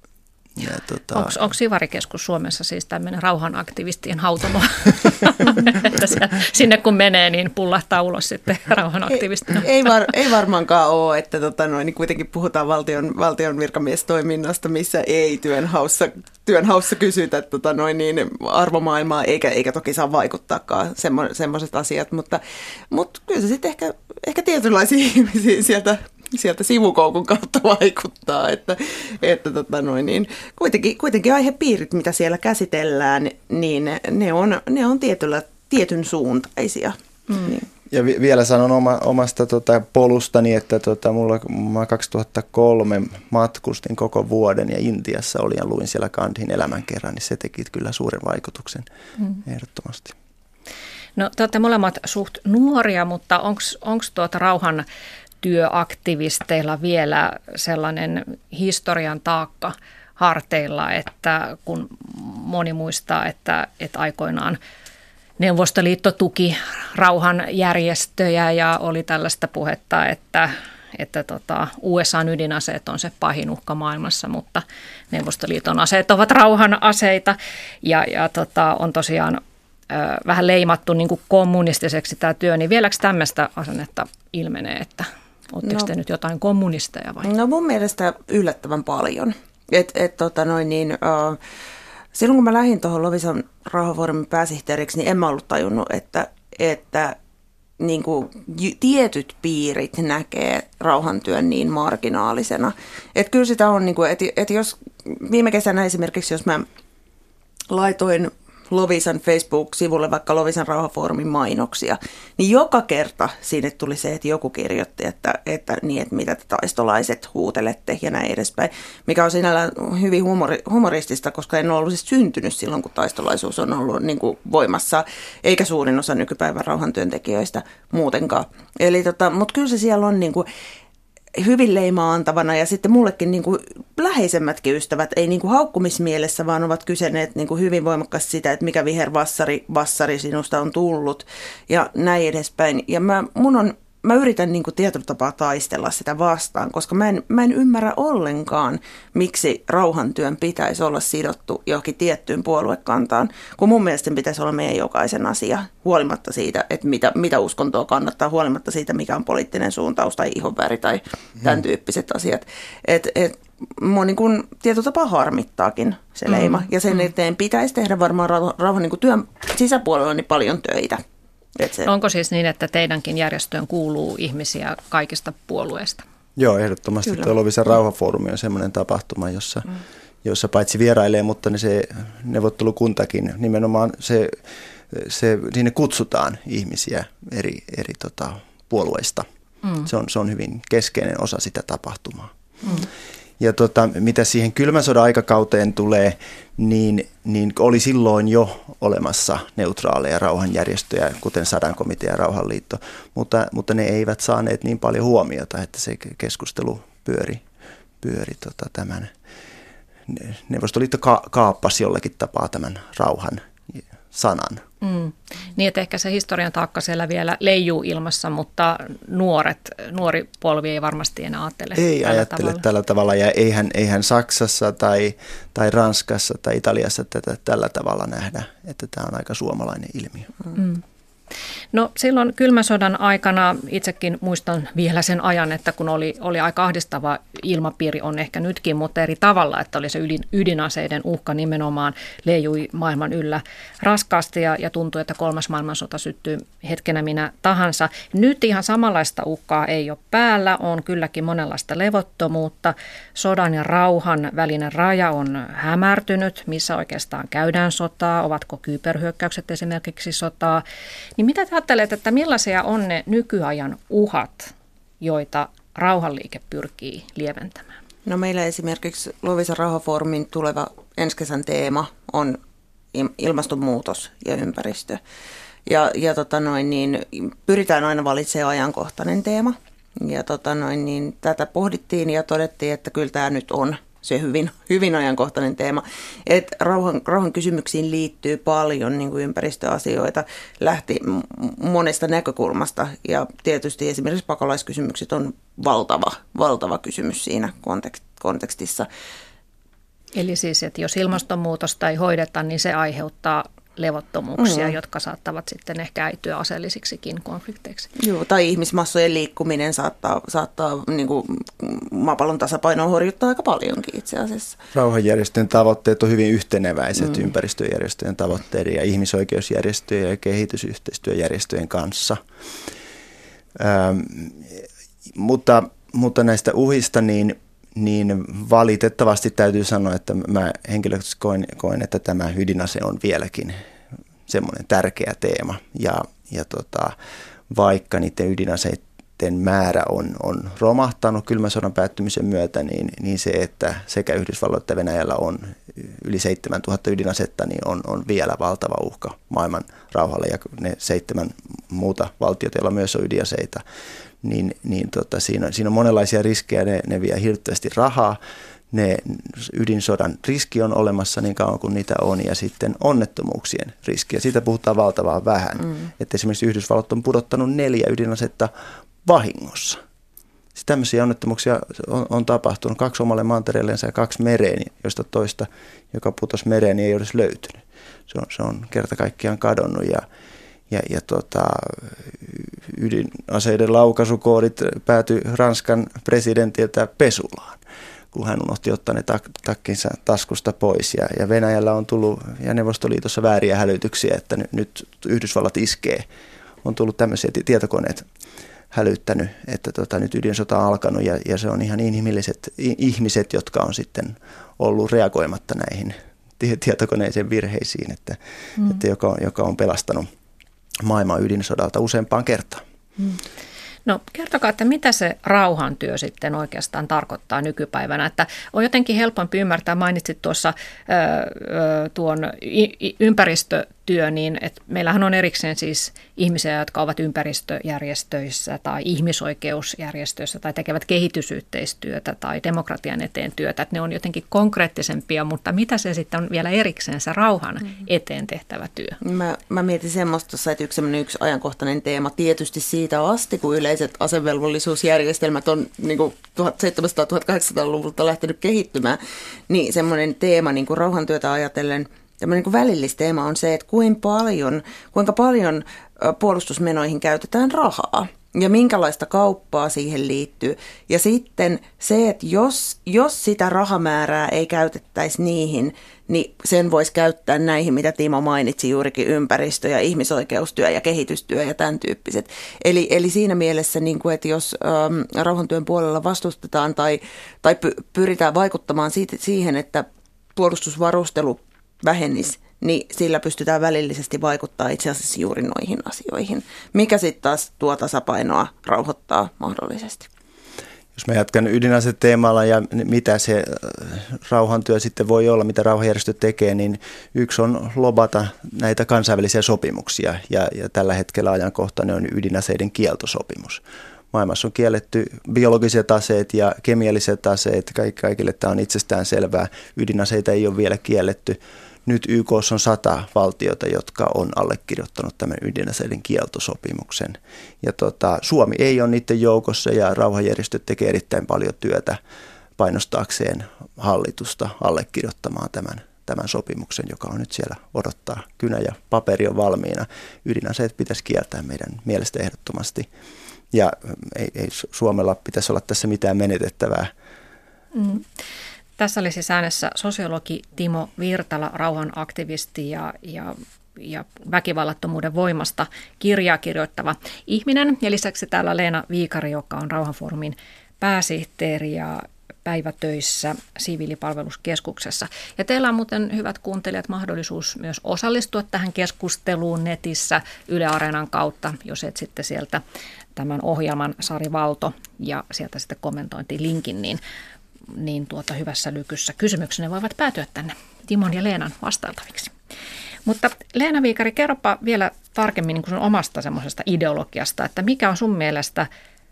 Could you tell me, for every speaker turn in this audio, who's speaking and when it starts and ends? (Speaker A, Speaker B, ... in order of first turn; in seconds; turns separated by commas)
Speaker A: 0.6-1.4, Speaker B: 1.1-9.9, Speaker C: 9.5-37.7, Speaker A: 37.9-48.9, Speaker A: 49.5-50.1, Speaker B: 51.2-54.9, Speaker B: 55.4-64.6, Speaker B: 65.4-87.3, Speaker C: 85.6-85.9, Speaker C: 87.2-91.4, Speaker C: 92.1-97.2, Speaker C: 97.8-106.7, Speaker C: 107.7-130.5, Speaker C: 131.3-171.0, Speaker B: 166.3-166.7, Speaker C: 171.6-171.9, Speaker B: 171.8-176.1, Speaker A: 176.4-179.7, Speaker A: 180.2-189.3, Speaker A: 189.8-192.3, Speaker A: 193.4-207.4, Speaker A: 208.0-209.1, Speaker A: 210.1-214.6, Speaker B: 214.8-222.6, Speaker A: 221.8-230.3, Speaker B: 230.6-230.8, Speaker B: 231.7-260.6, Speaker B: 261.2-267.7, Speaker C: 268.1-272.4, Speaker C: 272.9-275.0, Speaker C: 275.7-298.9, Speaker B: 300.1-307.9, Speaker C: 304.4-304.8, Speaker C: 308.0-314.6, Speaker A: 314.7-322.2, Speaker A: 323.6-333.6, Speaker A: 334.3-336.9, Speaker A: 337.5-353.6, Speaker A: 354.2-358.2, Speaker A: 358.7-368.5, Speaker A: 369.0-369.8, Speaker A: 370.6-380.0, Speaker A: 380.7-396.1, Speaker A: 396.6-398.1, Speaker A: 398.7-410.1, Speaker A: 410.8-412.6, Speaker B: 413.9-439.0, Speaker C: 439.0-490.1, Speaker A: 491.0-522.0, Speaker A: 522.6-532.9, Speaker A: 533.5-536.9, Speaker B: 537.7-538.0, Speaker B: 538.8-562.6, Speaker B: 563.2-567.0, Speaker B: 567.7-572.3, Speaker B: 573.1-578.7